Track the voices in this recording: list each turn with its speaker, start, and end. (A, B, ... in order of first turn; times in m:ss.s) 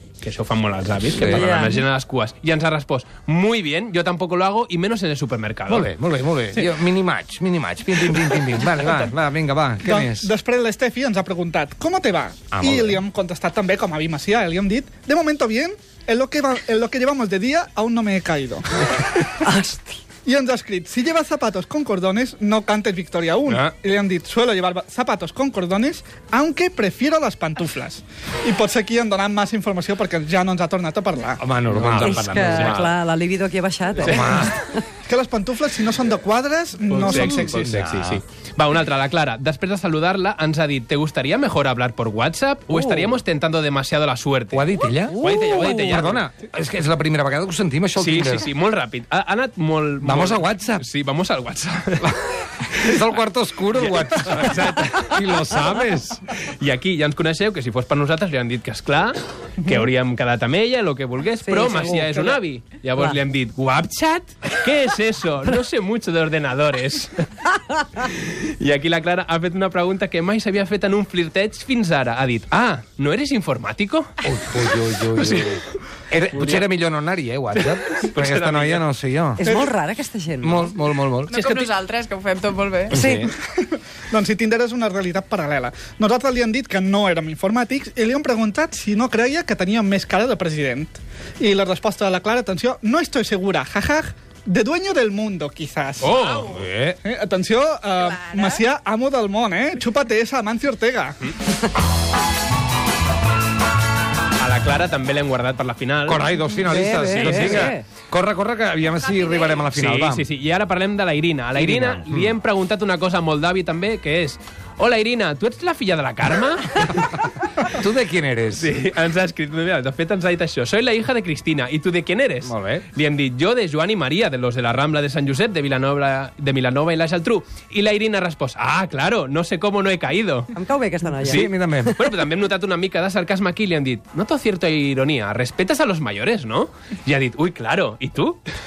0:00.2-0:05.9 A
0:01.1-0:01.5 B
0:01.2-0:01.8 C
0:05.7-0:10.3 B
0:08.1-0:09.0 A
0:09.8-0:19.3 D
0:12.5-0:13.0 B
0:19.4-0:20.0 C
0:20.2-0:31.4 D
0:31.4-0:32.9 B
0:31.7-0:32.9 A
0:31.9-0:34.6 C
0:34.0-0:34.3 A
0:34.0-0:34.6 B
0:35.0-0:37.7 D
0:36.9-0:46.3 A
0:37.1-0:38.2 B
0:42.7-0:43.1 C
0:44.5-0:48.5 B
0:45.1-0:45.8 C
0:48.0-0:52.2 A
0:50.0-0:50.8 B
0:52.7-0:56.2 B
0:53.7-1:14.1 A
1:01.4-1:02.4 C
1:14.2-1:19.4 B
1:15.1-1:15.6 A
1:16.3-1:16.7 A
1:17.5-1:18.8 A
1:19.4-1:20.7 C
1:19.4-1:19.7 D
1:20.4-1:21.4 B
1:21.3-1:23.0 E
1:21.3-1:21.7 A
1:22.9-1:23.3 B
1:22.9-1:23.3 C
1:23.4-1:36.1 D
1:36.0-1:36.5 A
1:36.1-1:36.7 E
1:36.5-1:37.0 B
1:37.0-1:41.2 D
1:37.9-1:38.6 E
1:44.4-1:46.3 A
1:46.0-1:50.3 B
1:46.6-1:47.8 C
1:47.0-1:47.8 A
1:49.1-1:49.6 E
1:49.7-1:57.3 A
1:51.6-1:52.4 B
1:57.6-1:58.7 B
1:58.5-2:10.5 A
2:02.4-2:02.8 B
2:10.5-2:11.9 C
2:11.2-2:18.4 A
2:11.2-2:11.9 B